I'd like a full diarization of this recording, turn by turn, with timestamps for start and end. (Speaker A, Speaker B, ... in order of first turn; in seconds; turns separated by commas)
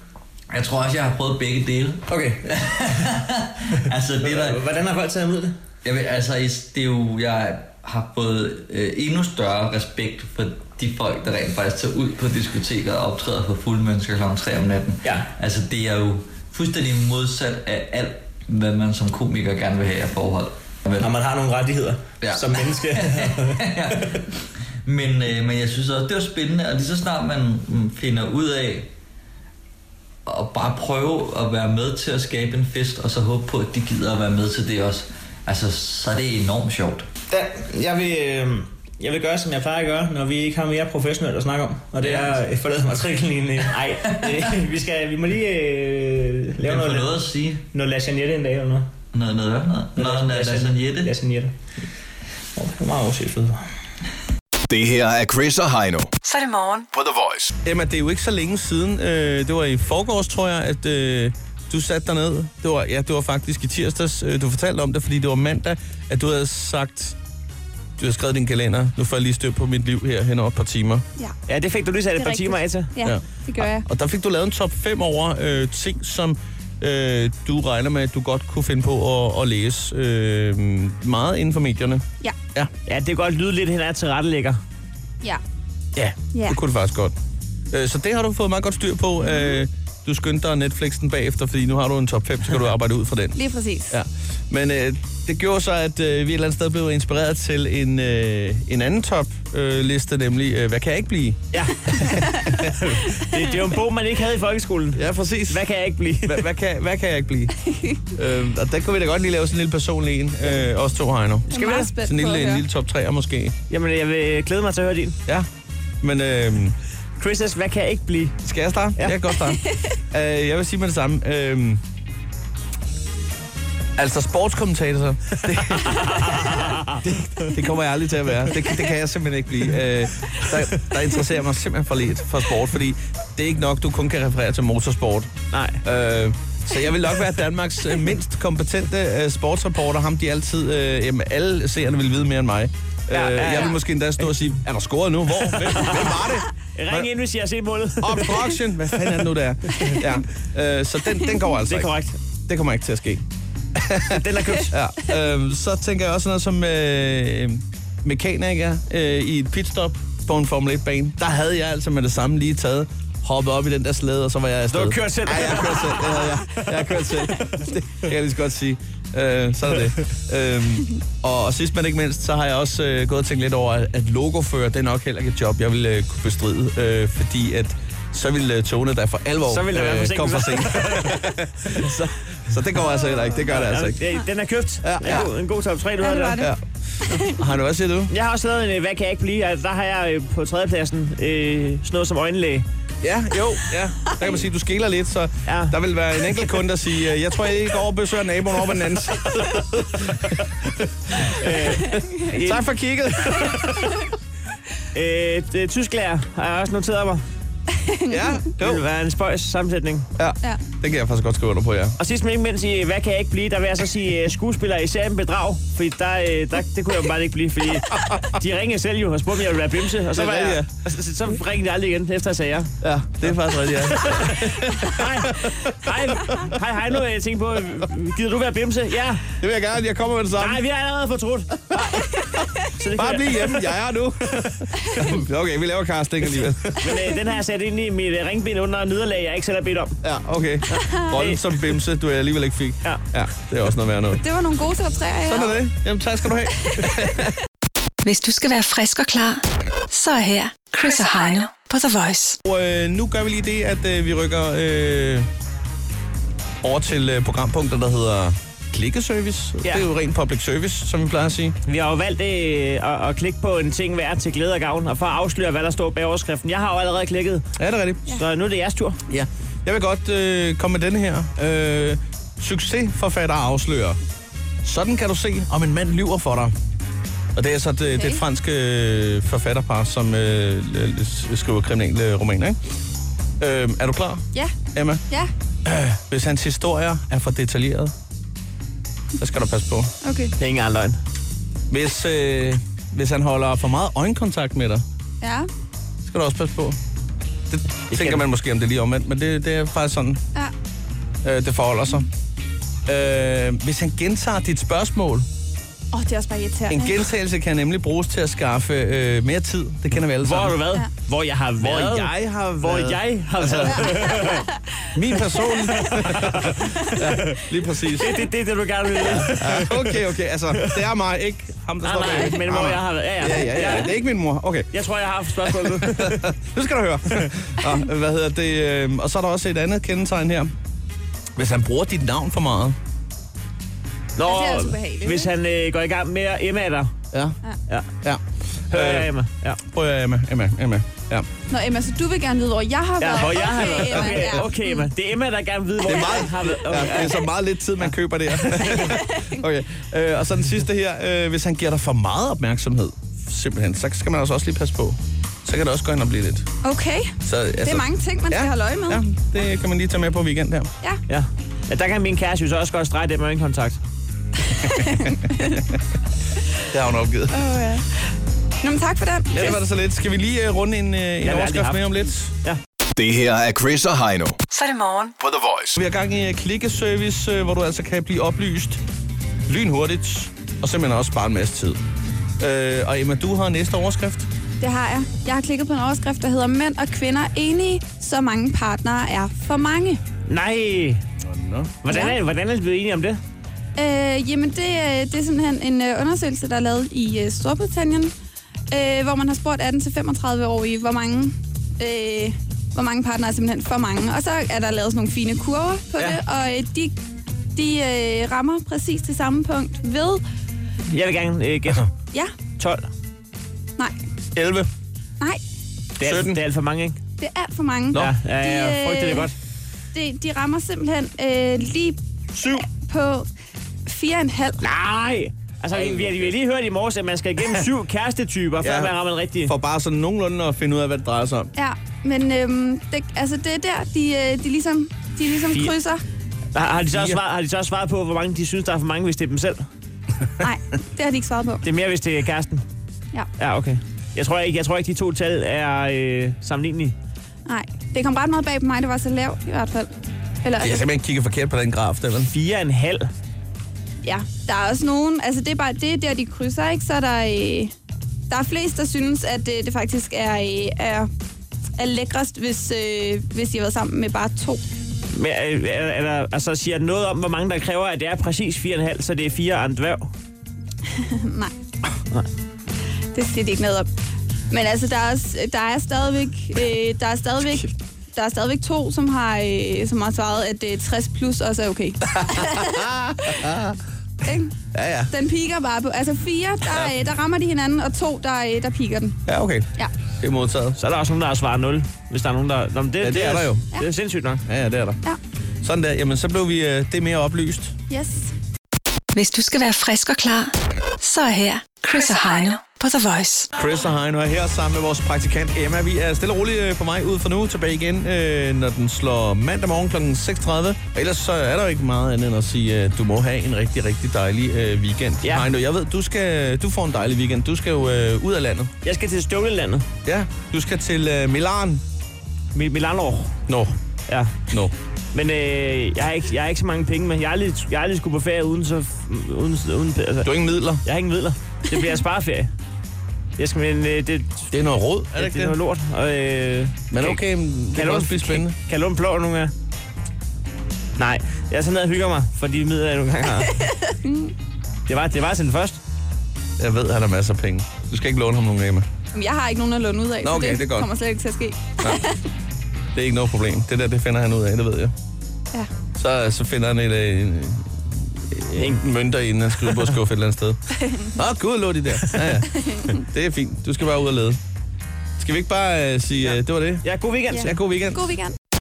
Speaker A: 0.5-4.6, Speaker B: 2.1-3.1, Speaker B: 4.2-5.5, Speaker A: 5.8-21.1, Speaker B: 15.0-15.3, Speaker B: 21.0-24.2, Speaker A: 22.2-24.3, Speaker A: 24.8-28.9, Speaker A: 30.2-37.1, Speaker B: 37.3-48.9, Speaker A: 42.0-42.3, Speaker A: 44.1-44.5, Speaker A: 46.6-47.6, Speaker A: 49.1-51.1, Speaker B: 50.0-51.6, Speaker B: 52.5-53.7, Speaker C: 54.7-56.1, Speaker D: 56.2-56.9, Speaker C: 56.9-57.5, Speaker E: 57.6-67.2, Speaker E: 68.0-71.0, Speaker F: 71.5-72.9, Speaker G: 72.1-73.8, Speaker E: 73.0-82.7, Speaker F: 82.9-84.6, Speaker E: 86.0-87.1, Speaker E: 87.7-93.4, Speaker G: 93.3-93.9, Speaker E: 93.9-102.7, Speaker F: 101.5-106.5, Speaker E: 104.9-105.6, Speaker E: 106.2-107.6, Speaker G: 107.7-108.0, Speaker E: 108.1-113.5, Speaker G: 111.5-112.6, Speaker F: 111.5-111.9, Speaker F: 113.7-115.2, Speaker E: 116.0-116.8, Speaker F: 117.2-118.4, Speaker E: 118.4-121.8, Speaker F: 119.0-119.2, Speaker E: 124.0-126.5, Speaker F: 125.8-127.0, Speaker E: 127.0-135.3, Speaker F: 135.5-135.8, Speaker E: 135.8-147.1, Speaker F: 143.1-143.8, Speaker F: 145.6-148.4, Speaker E: 148.0-151.9, Speaker F: 151.7-152.2, Speaker E: 152.5-153.2, Speaker E: 153.8-184.0, Speaker F: 154.0-154.7, Speaker F: 164.7-167.4, Speaker F: 179.5-181.2, Speaker F: 183.3-186.4, Speaker E: 184.8-185.3, Speaker G: 186.0-186.5, Speaker E: 186.3-188.1, Speaker G: 187.1-187.3, Speaker F: 188.1-192.7, Speaker E: 193.0-204.0, Speaker F: 195.5-195.7, Speaker F: 201.3-202.7, Speaker F: 203.2-203.6, Speaker F: 204.9-207.2, Speaker G: 207.8-208.3, Speaker E: 208.1-208.8, Speaker F: 208.6-210.1, Speaker E: 210.2-211.9, Speaker F: 212.0-222.7, Speaker E: 220.1-220.7, Speaker E: 222.8-225.7, Speaker F: 224.0-229.3, Speaker E: 229.4-230.6, Speaker F: 230.4-232.1, Speaker E: 231.7-236.9, Speaker F: 232.7-233.5, Speaker F: 236.8-240.0, Speaker E: 240.0-244.2, Speaker G: 240.8-241.1, Speaker G: 244.2-245.5, Speaker E: 245.2-247.3, Speaker D: 248.0-252.4, Speaker E: 252.4-255.3, Speaker E: 256.6-261.6, Speaker F: 261.6-267.5, Speaker E: 267.6-268.0, Speaker F: 268.1-269.0, Speaker E: 269.1-274.0, Speaker E: 274.6-276.5, Speaker E: 277.3-282.6, Speaker G: 277.9-278.2, Speaker E: 283.4-285.0, Speaker E: 285.6-287.9, Speaker E: 289.2-289.9, Speaker G: 290.0-290.3, Speaker F: 290.4-291.0, Speaker E: 291.7-294.8, Speaker G: 295.2-295.5, Speaker E: 296.0-296.8, Speaker E: 297.5-300.2, Speaker F: 297.9-298.2, Speaker E: 301.2-302.1, Speaker E: 302.9-305.2, Speaker G: 305.9-307.0, Speaker E: 306.7-310.6, Speaker F: 310.2-314.4, Speaker E: 311.6-314.1, Speaker G: 313.9-314.3, Speaker E: 314.9-318.2, Speaker F: 315.8-317.4, Speaker F: 318.0-319.9, Speaker E: 319.0-324.7, Speaker F: 320.6-320.8, Speaker F: 321.8-324.0, Speaker F: 324.7-326.2, Speaker E: 325.4-330.5, Speaker E: 331.4-332.8, Speaker F: 334.2-336.9, Speaker G: 334.2-335.3, Speaker E: 338.0-339.1, Speaker F: 338.7-339.6, Speaker E: 339.7-341.3, Speaker G: 341.5-344.9, Speaker F: 343.0-347.2, Speaker E: 343.8-344.3, Speaker E: 345.8-356.5, Speaker G: 348.6-349.4, Speaker G: 356.6-359.1, Speaker E: 357.2-360.7, Speaker F: 361.1-363.8, Speaker G: 364.5-365.6, Speaker E: 366.7-367.4, Speaker G: 367.3-367.9, Speaker G: 368.6-369.6, Speaker E: 369.3-372.3, Speaker F: 371.2-371.9, Speaker C: 373.0-374.4, Speaker D: 374.5-375.1, Speaker C: 375.2-375.8, Speaker E: 375.8-378.8, Speaker E: 379.5-381.8, Speaker E: 382.4-384.3, Speaker G: 384.6-390.0, Speaker F: 390.3-391.0, Speaker E: 391.2-391.7, Speaker F: 391.8-393.2, Speaker G: 391.9-392.2, Speaker G: 393.8-398.1, Speaker G: 398.7-406.9, Speaker G: 407.5-410.2, Speaker F: 410.9-411.9, Speaker F: 412.6-412.8, Speaker E: 414.3-414.7, Speaker F: 416.0-417.0, Speaker E: 416.0-416.4, Speaker G: 417.2-419.3, Speaker F: 417.9-419.3, Speaker G: 419.9-422.0, Speaker F: 422.3-422.6, Speaker G: 422.6-423.3, Speaker G: 423.9-424.6, Speaker F: 424.6-429.5, Speaker E: 425.7-426.2, Speaker E: 428.6-431.5, Speaker G: 431.6-436.0, Speaker F: 436.5-439.7, Speaker E: 436.9-437.2, Speaker G: 440.4-441.6, Speaker F: 441.6-442.6, Speaker F: 443.4-446.9, Speaker G: 447.5-449.9, Speaker G: 450.4-450.8, Speaker E: 450.6-452.3, Speaker F: 452.3-453.1, Speaker G: 454.0-457.7, Speaker G: 458.3-461.1, Speaker G: 461.8-464.6, Speaker F: 465.1-470.1, Speaker G: 470.9-471.5, Speaker G: 473.1-473.9, Speaker G: 474.5-483.5, Speaker E: 482.1-483.8, Speaker G: 484.2-484.6, Speaker E: 484.7-485.1, Speaker G: 485.1-489.2, Speaker E: 486.7-487.0, Speaker E: 489.3-489.7, Speaker E: 490.2-490.8, Speaker F: 490.8-494.4, Speaker E: 493.0-493.6, Speaker E: 494.5-495.0, Speaker E: 495.6-497.7, Speaker G: 497.9-498.3, Speaker D: 499.1-503.5, Speaker E: 503.5-518.7, Speaker F: 515.2-515.5, Speaker F: 518.8-519.9, Speaker E: 520.0-521.8, Speaker F: 522.5-523.4, Speaker E: 523.5-523.7, Speaker F: 524.1-524.4, Speaker F: 525.1-532.5, Speaker E: 530.2-530.8, Speaker F: 533.4-534.5, Speaker E: 534.5-535.6, Speaker F: 535.1-537.2, Speaker E: 536.9-538.5, Speaker F: 537.7-539.5, Speaker F: 541.0-543.6, Speaker G: 543.5-544.3, Speaker F: 544.9-545.8, Speaker E: 546.6-548.9, Speaker G: 549.1-552.2, Speaker E: 550.2-550.9, Speaker E: 552.9-554.9, Speaker E: 555.9-564.4, Speaker F: 558.5-558.8, Speaker G: 560.8-561.1, Speaker G: 562.6-563.0, Speaker E: 565.2-566.8, Speaker F: 566.2-567.5, Speaker G: 567.3-568.3, Speaker E: 567.4-568.0